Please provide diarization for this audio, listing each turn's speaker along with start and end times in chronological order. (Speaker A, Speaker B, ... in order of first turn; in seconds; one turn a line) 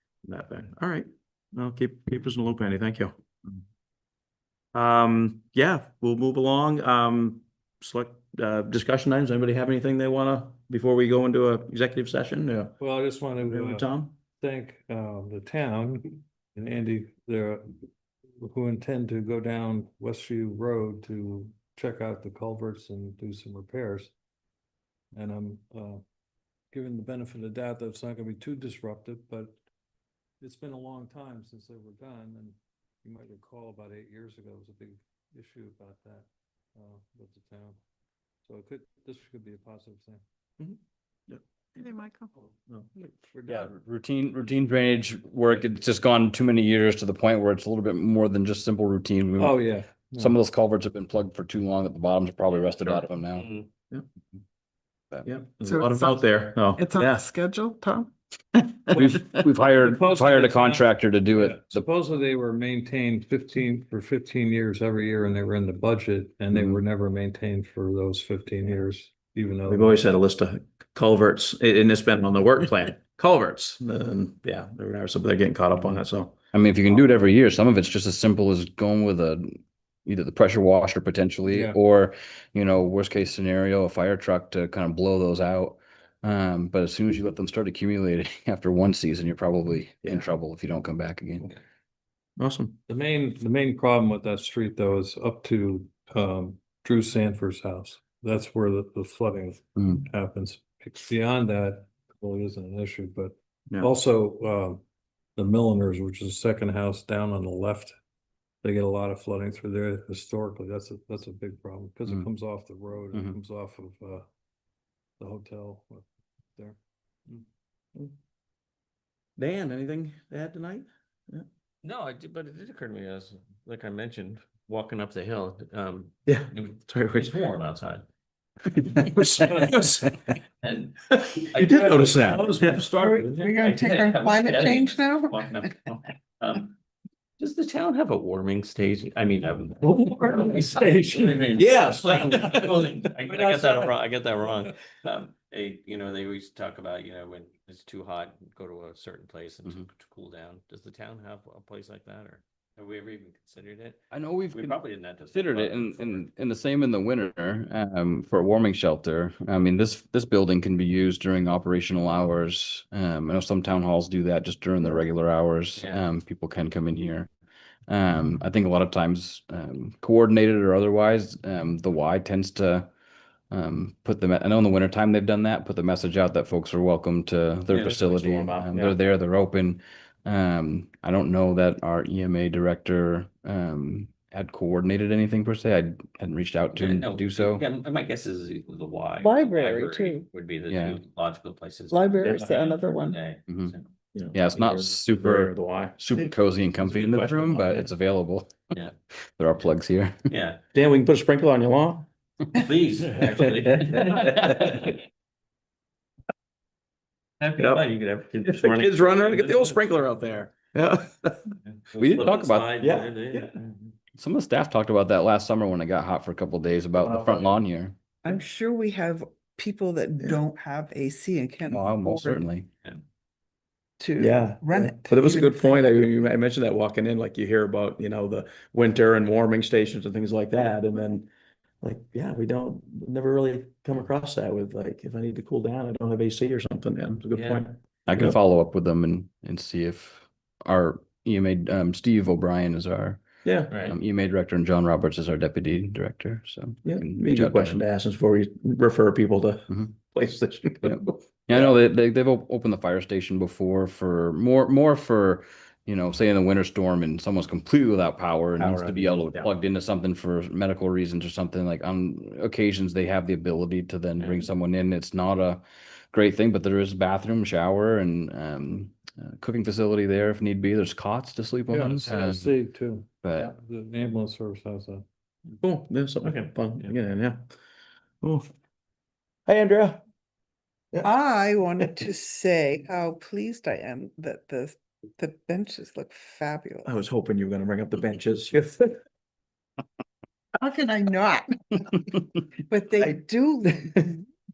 Speaker A: 0.2-3.6
Speaker A: 4.7-12.8
Speaker B: 12.8-13.9
Speaker A: 13.4-14.1
Speaker B: 14.4-17.8
Speaker B: 18.4-24.1
Speaker B: 25.1-26.0
Speaker B: 26.7-29.6
Speaker B: 30.4-37.8
Speaker B: 38.4-40.2
Speaker C: 41.8-42.3
Speaker B: 43.0-43.7
Speaker D: 43.5-49.6
Speaker B: 49.4-50.4
Speaker D: 50.2-53.5
Speaker E: 52.7-53.7
Speaker A: 55.2-57.2
Speaker C: 55.6-56.1
Speaker C: 56.8-58.1
Speaker D: 58.9-61.8
Speaker B: 59.7-70.0
Speaker D: 66.5-66.8
Speaker A: 69.7-76.3
Speaker D: 76.5-91.5
Speaker B: 81.5-81.8
Speaker A: 92.4-92.8
Speaker B: 92.9-104.8
Speaker B: 105.3-107.9
Speaker B: 108.6-114.2
Speaker B: 115.2-116.8
Speaker A: 119.4-121.4
Speaker E: 121.8-128.0
Speaker A: 126.3-127.4
Speaker A: 128.7-130.3
Speaker E: 128.9-129.7
Speaker E: 130.6-136.7
Speaker A: 131.1-132.9
Speaker C: 132.9-135.6
Speaker E: 137.4-156.2
Speaker A: 141.5-143.6
Speaker D: 154.1-167.3
Speaker E: 165.8-166.0
Speaker D: 167.9-172.9
Speaker D: 173.5-187.6
Speaker A: 177.9-179.0
Speaker E: 186.7-193.9
Speaker C: 189.2-190.3
Speaker D: 190.7-191.0
Speaker C: 191.9-193.2
Speaker A: 192.2-192.5
Speaker A: 194.1-196.3
Speaker D: 194.3-198.5
Speaker A: 196.8-197.8
Speaker D: 199.1-200.2
Speaker E: 200.3-200.6
Speaker A: 200.7-202.1
Speaker E: 202.5-205.0
Speaker A: 203.2-204.9
Speaker E: 207.4-210.1
Speaker A: 207.6-207.8
Speaker A: 208.4-211.5
Speaker E: 211.7-213.9
Speaker D: 211.9-212.7
Speaker A: 212.8-213.6
Speaker D: 214.2-217.9
Speaker A: 217.0-217.5
Speaker C: 218.2-222.4
Speaker D: 221.7-222.7
Speaker C: 224.0-225.7
Speaker A: 224.2-231.3
Speaker A: 231.8-238.3
Speaker E: 237.3-237.6
Speaker D: 238.1-243.2
Speaker A: 243.4-243.7
Speaker D: 243.8-247.8
Speaker A: 246.8-251.7
Speaker D: 250.8-272.5
Speaker A: 258.6-259.5
Speaker E: 264.2-264.5
Speaker B: 271.7-275.0
Speaker D: 273.2-273.5
Speaker A: 275.6-277.4
Speaker E: 276.2-276.9
Speaker A: 279.4-280.0
Speaker C: 281.0-286.9
Speaker A: 286.8-289.0
Speaker C: 290.6-292.0
Speaker C: 292.7-294.2
Speaker A: 293.0-294.1